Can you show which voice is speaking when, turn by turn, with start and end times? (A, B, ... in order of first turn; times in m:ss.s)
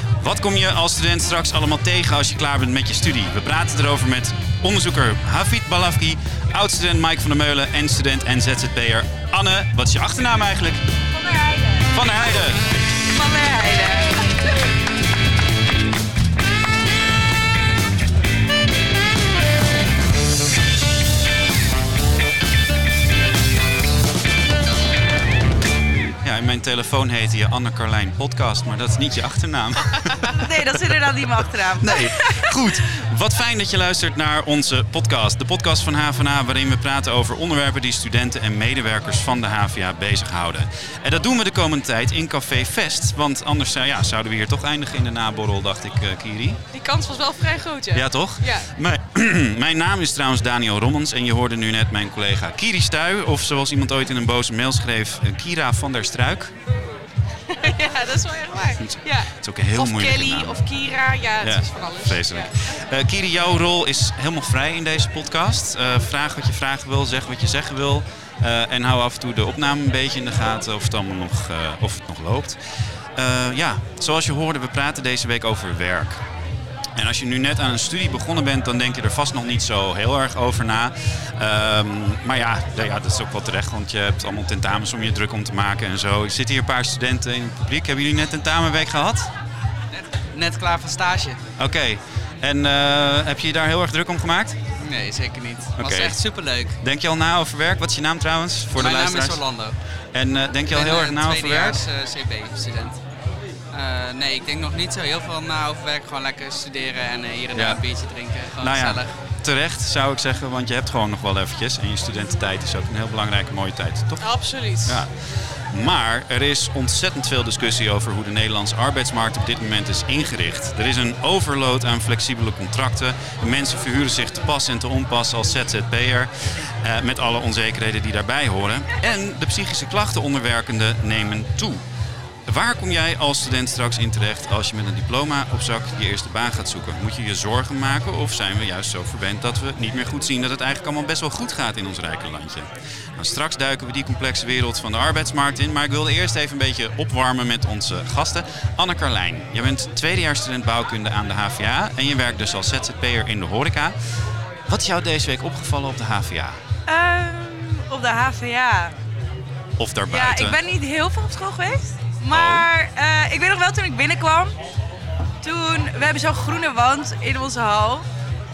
0:00.2-0:10.8 A
0:11.2-0:12.1 B
0:11.9-0:12.6 A
0:13.1-0:14.1 B
0:26.2-0:30.2 A
0:30.4-0:32.4 B
0:31.8-0:46.6 A
0:46.7-0:48.7 C
0:47.9-0:56.5 A
0:57.5-1:02.5 C
0:58.8-1:00.6 A
1:01.4-1:12.6 A
1:13.2-1:16.2 A
1:17.0-1:29.3 A
1:29.9-1:31.4 D
1:31.6-1:34.6 A
1:34.8-1:36.8 D
1:35.8-1:41.8 A
1:38.7-1:39.8 D
1:40.7-1:43.0 D
1:43.7-1:49.2 D
1:47.5-1:47.8 A
1:48.6-2:11.8 A
1:54.2-1:55.0 C
2:12.5-2:33.9 A
2:34.7-2:36.6 A
2:36.9-2:38.9 B
2:39.8-2:40.6 A
2:40.1-2:44.5 B
2:42.3-2:42.6 A
2:45.4-2:48.0 B